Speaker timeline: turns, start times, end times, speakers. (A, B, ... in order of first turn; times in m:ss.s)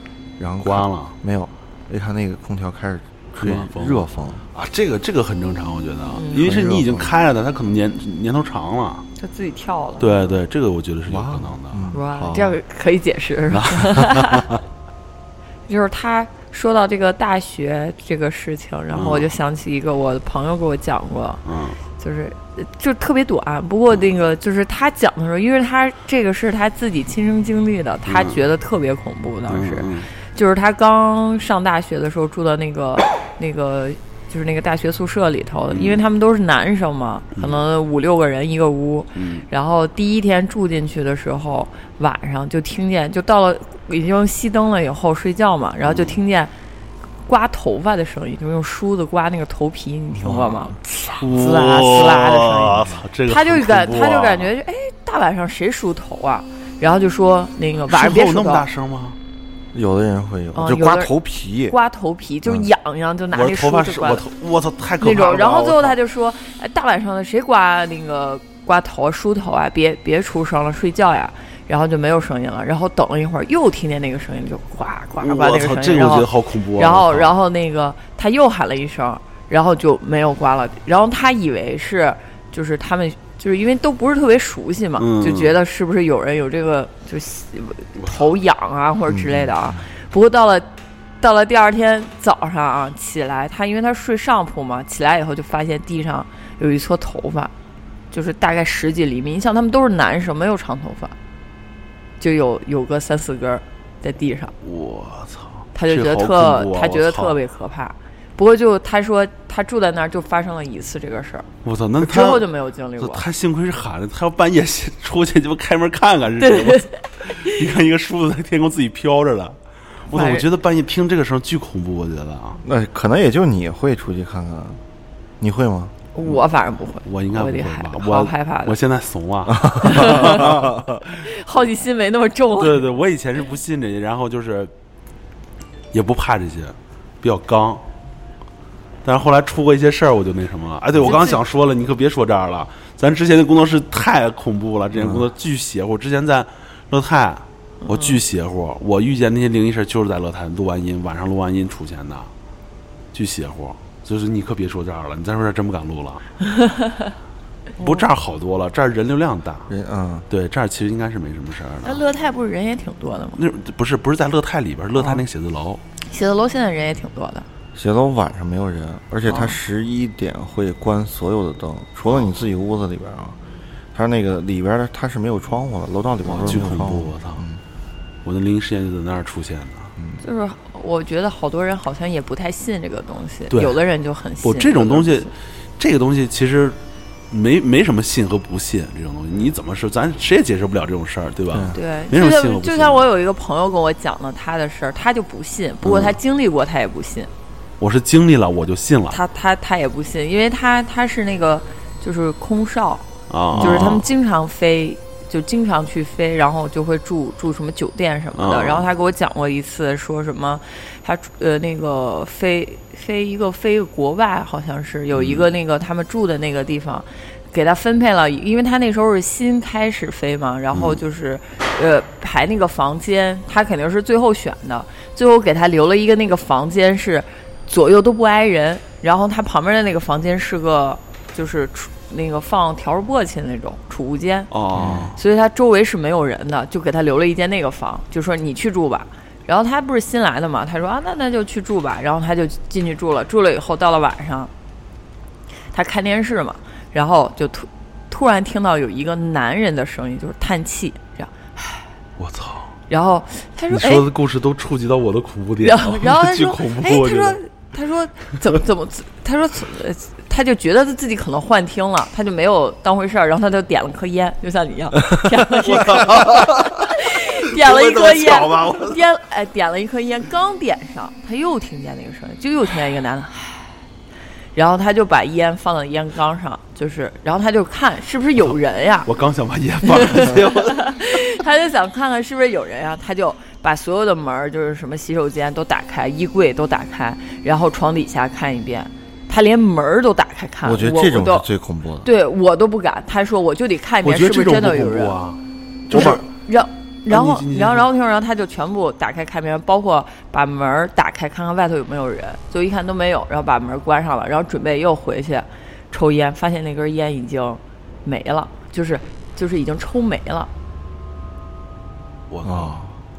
0:00.4-0:04.4 A
0:00.6-0:01.1 B
0:03.3-0:09.0 B
0:06.1-0:06.5 C
0:06.3-0:07.1 A
0:09.2-0:10.4 C
0:10.0-0:11.9 B
0:11.1-0:12.6 A
0:11.9-0:14.5 C
0:13.5-0:14.6 B
0:15.7-0:21.4 C
0:18.9-0:19.3 B
0:21.4-0:21.8 B
0:22.0-0:46.5 C
0:28.1-0:28.4 B
0:29.5-0:30.1 B
0:35.7-0:36.0 B
0:37.4-0:37.6 B
0:39.2-0:39.4 B
0:45.9-0:46.2 B
0:47.2-0:58.6 C
0:50.1-0:50.8 A
0:51.2-0:54.5 B
0:57.9-0:59.2 B
0:59.7-1:01.8 A
1:00.5-1:01.1 C
1:01.7-1:04.2 C
1:03.3-1:06.0 B
1:05.0-1:30.7 C
1:15.2-1:17.3 B
1:25.0-1:25.5 B
1:29.1-1:29.8 A
1:31.2-1:37.5 C
1:38.1-1:41.1 C
1:42.2-1:44.5 C
1:44.6-1:47.4 B
1:45.7-1:51.5 C
1:51.6-1:52.5 B
1:52.0-1:53.2 C
1:53.0-2:02.6 B
1:56.4-1:57.5 C
2:00.1-2:00.4 C
2:02.6-2:04.8 A
2:05.4-2:05.9 A
2:06.1-2:08.8 C
2:07.0-2:10.8 B
2:09.5-2:10.9 A
2:09.8-2:10.5 C
2:11.2-2:12.8 C
2:12.6-2:14.7 B
2:15.9-2:17.8 B
2:19.0-2:32.3 B
2:21.0-2:21.4 C
2:24.9-2:25.2 A
2:27.8-2:28.2 C
2:33.1-2:36.3 B
2:36.5-2:37.1 C
2:37.8-2:39.7 B
2:37.8-2:38.0 C
2:39.7-2:40.3 A
2:40.3-2:42.0 B
2:41.8-2:43.4 C
2:43.4-2:45.8 B
2:46.0-2:47.4 C
2:47.7-2:53.4 A
2:53.9-2:57.6 A
2:56.2-2:57.4 B
2:58.2-2:59.9 B
3:00.0-3:00.2 A
3:00.2-3:05.3 C
3:03.5-3:03.8 B
3:04.4-3:06.8 B
3:07.3-3:13.0 B
3:11.5-3:11.8 A
3:11.7-3:17.3 C
3:15.8-3:16.1 B
3:17.8-3:19.2 B
3:19.1-3:54.5 C
3:23.3-3:24.1 B
3:28.3-3:28.9 B
3:35.1-3:35.4 B
3:40.7-3:41.0 B
3:54.5-3:55.2 B
3:54.8-3:55.1 A
3:55.2-4:04.5 C
4:05.7-4:11.9 C
4:12.2-4:12.7 B
4:12.9-4:14.1 C
4:13.7-4:17.4 B
4:15.6-4:33.7 C
4:25.6-4:29.0 B
4:34.5-4:39.1 C
4:39.0-4:41.0 B
4:39.8-4:51.5 C
4:50.6-4:52.1 A
4:52.0-4:55.2 C
4:54.0-4:56.2 B
4:55.9-5:10.5 C
4:55.9-4:56.2 A
4:57.1-4:57.9 B
5:12.3-5:12.8 B
5:12.4-5:12.9 A